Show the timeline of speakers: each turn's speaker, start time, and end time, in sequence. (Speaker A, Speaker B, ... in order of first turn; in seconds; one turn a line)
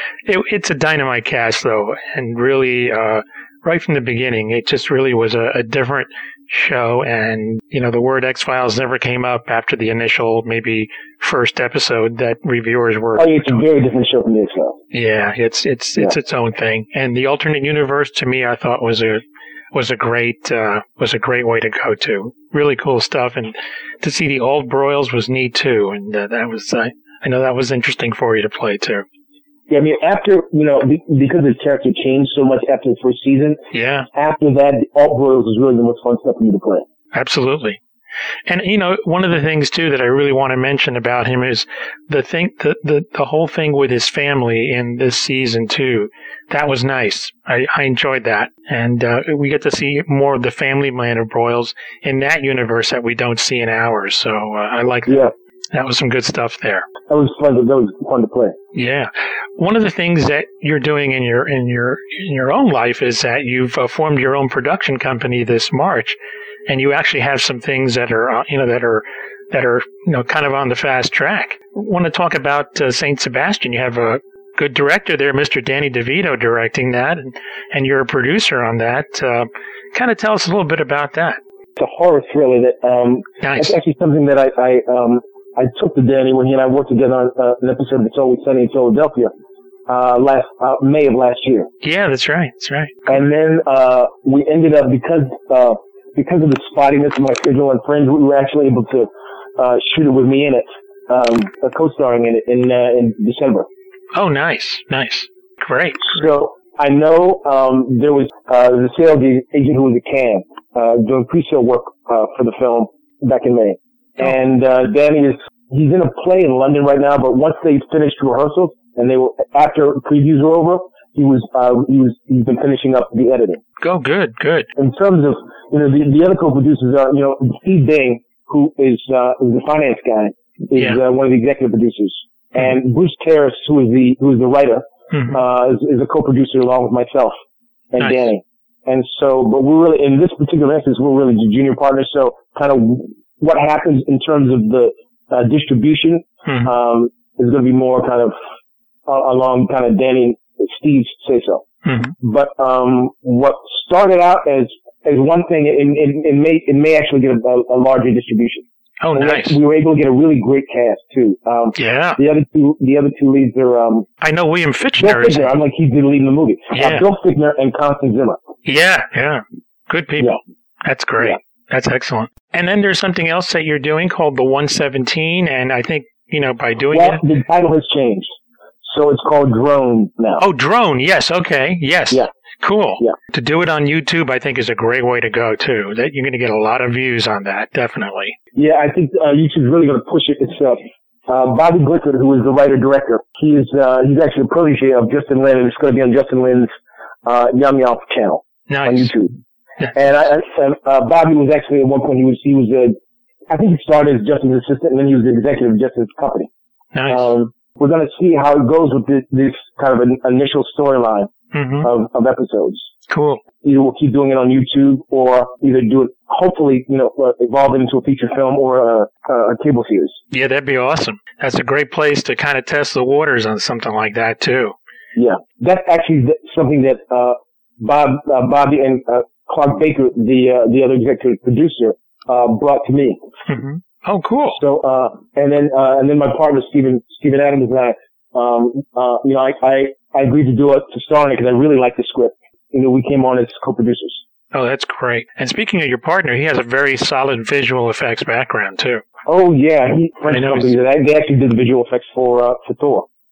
Speaker A: 0.2-13.6
Speaker B: 13.2-14.8
Speaker A: 14.9-19.2
Speaker A: 19.7-29.0
Speaker B: 29.7-33.6
Speaker A: 33.7-34.1
Speaker B: 34.1-36.8
Speaker A: 37.1-37.8
Speaker A: 38.5-56.9
Speaker B: 55.1-55.3
Speaker B: 57.1-58.5
Speaker A: 58.7-66.2
Speaker A: 66.7-81.4
Speaker B: 81.8-89.3
Speaker A: 83.4-83.7
Speaker B: 89.9-91.7
Speaker A: 91.8-93.2
Speaker B: 93.1-103.7
Speaker A: 104.1-106.2
Speaker B: 106.1-123.6
Speaker A: 123.8-124.7
Speaker B: 124.8-137.3
Speaker A: 135.1-135.4
Speaker B: 137.9-148.3
Speaker A: 138.0-138.2
Speaker A: 146.4-146.7
Speaker B: 149.1-151.6
Speaker A: 151.8-152.1
Speaker B: 152.2-158.6
Speaker A: 159.0-159.6
Speaker B: 159.1-164.1
Speaker A: 161.7-162.2
Speaker A: 164.2-165.5
Speaker B: 165.0-168.4
Speaker A: 166.7-167.0
Speaker A: 168.6-177.2
Speaker B: 176.9-178.3
Speaker B: 178.8-180.4
Speaker A: 180.4-188.3
Speaker B: 188.5-196.7
Speaker B: 197.2-199.3
Speaker A: 198.7-199.1
Speaker B: 199.9-202.9
Speaker B: 203.5-206.5
Speaker A: 206.9-207.3
Speaker B: 207.1-211.3
Speaker A: 211.5-211.9
Speaker B: 211.8-212.8
Speaker A: 213.1-213.4
Speaker B: 213.6-220.2
Speaker A: 220.3-224.7
Speaker B: 225.1-233.2
Speaker A: 233.5-234.6
Speaker B: 234.6-244.2
Speaker A: 244.5-249.0
Speaker B: 249.2-253.1
Speaker A: 250.3-250.8